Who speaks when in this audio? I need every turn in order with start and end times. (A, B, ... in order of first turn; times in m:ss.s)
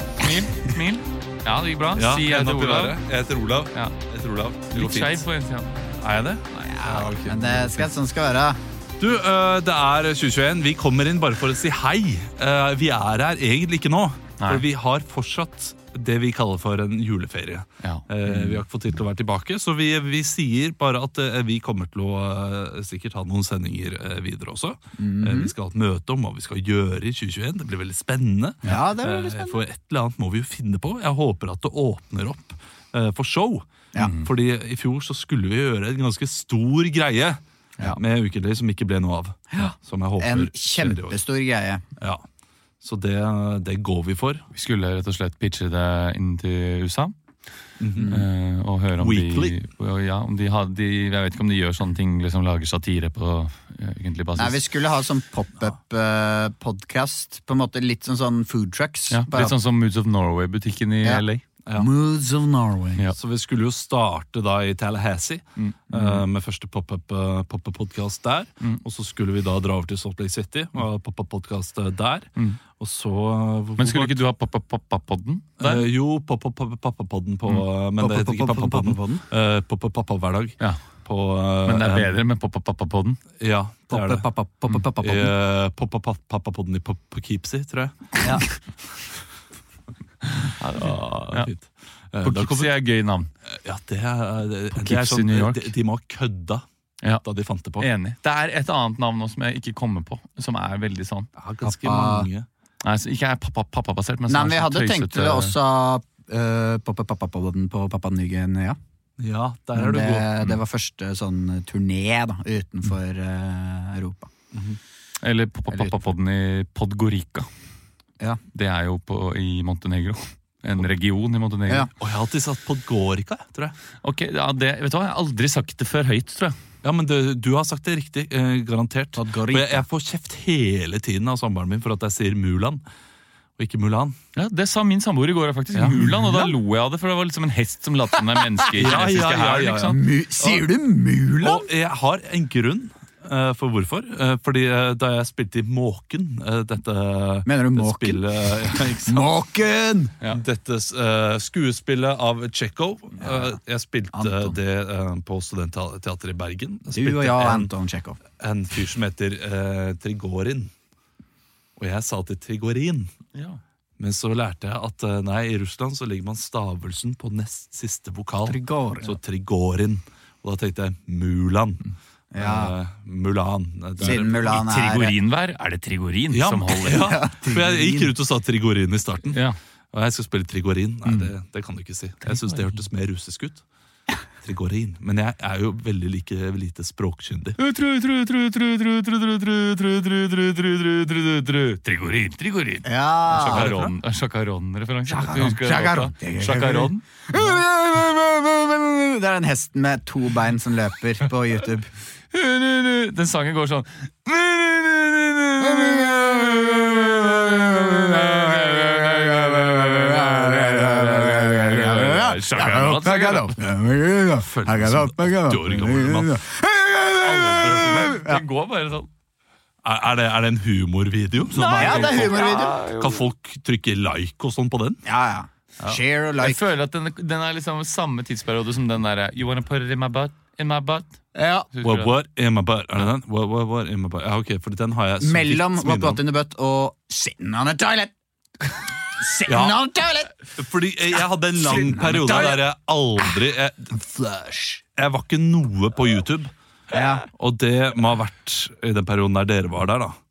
0:00.2-0:03.0 A
0:02.0-0:05.2 B
0:04.7-0:06.0 A
0:06.0-0:07.9 B
0:06.5-0:06.8 A
0:06.7-0:08.6 C
0:09.0-0:41.2 B
0:14.4-0:14.6 A
0:17.8-0:18.0 A
0:18.3-0:18.6 C
0:25.0-0:25.5 C
0:28.6-0:29.6 C
0:34.0-0:34.3 A
0:39.5-0:41.8 C
0:42.8-0:44.4 B
0:44.5-0:47.1 A
0:47.8-0:48.2 B
0:48.0-0:48.3 C
0:48.1-0:54.6 A
0:49.0-0:49.6 B
0:54.4-0:59.6 C
0:59.1-1:01.4 A
1:01.0-1:03.0 C
1:03.1-1:12.3 B
1:05.6-1:06.2 A
1:12.8-1:14.2 B
1:13.8-1:15.9 A
1:15.6-1:22.2 B
1:18.0-1:19.2 C
1:21.6-1:23.2 A
1:23.4-1:24.3 B
1:23.9-1:25.3 C
1:25.0-1:28.3 B
1:30.3-1:31.5 A
1:30.8-1:32.7 B
1:32.2-1:33.3 A
1:33.6-1:36.6 B
1:34.7-1:35.7 A
1:37.2-1:37.9 B
1:37.8-1:41.3 A
1:41.4-1:42.5 B
1:41.6-1:42.3 C
1:42.8-1:45.5 A
1:44.3-1:48.8 C
1:49.2-1:50.6 B
1:49.7-1:54.3 C
1:54.5-1:54.8 B
1:55.2-1:57.5 A
1:55.7-1:56.0 C
1:58.5-2:01.9 A
2:02.0-2:03.7 B
2:04.0-2:06.6 A
2:06.8-2:12.8 B
2:09.1-2:09.8 C
2:13.6-2:14.1 B
2:14.3-2:20.0 A
2:15.7-2:16.5 B
2:18.7-2:20.6 B
2:19.9-2:21.7 C
2:21.4-2:29.3 B
2:27.4-2:30.1 C
2:30.3-2:37.7 B
2:33.2-2:33.6 C
2:34.1-2:34.6 C
2:36.9-2:38.2 C
2:38.4-2:40.7 B
2:41.8-2:43.1 B
2:43.3-2:43.6 A
2:44.0-2:51.8 B
2:48.4-2:49.2 C
2:52.3-2:52.7 C
2:52.3-2:54.7 B
2:54.0-2:55.1 C
2:54.0-2:57.2 A
2:56.3-2:59.4 B
2:56.9-2:58.1 C
2:59.3-2:59.6 A
2:59.9-3:03.6 B
3:02.2-3:02.8 A
3:04.4-3:07.6 B
3:07.6-3:17.0 A
3:12.8-3:13.8 C
3:13.5-3:13.9 B
3:15.1-3:21.9 C
3:22.3-3:33.6 A
3:27.5-3:38.4 C
3:34.4-3:36.4 B
3:37.2-3:39.1 A
3:39.8-3:45.0 B
3:41.5-3:42.8 C
3:41.6-3:43.3 A
3:45.0-3:46.6 C
3:46.4-3:51.1 A
3:51.3-3:51.7 C
3:51.7-3:52.2 A
3:51.8-3:56.2 B
3:55.2-3:58.1 C
3:59.0-4:00.5 C
3:59.5-3:59.8 B
4:00.6-4:03.9 B
4:01.6-4:02.6 C
4:03.9-4:04.8 C
4:05.0-4:06.5 B
4:06.9-4:07.2 C
4:07.3-4:10.2 B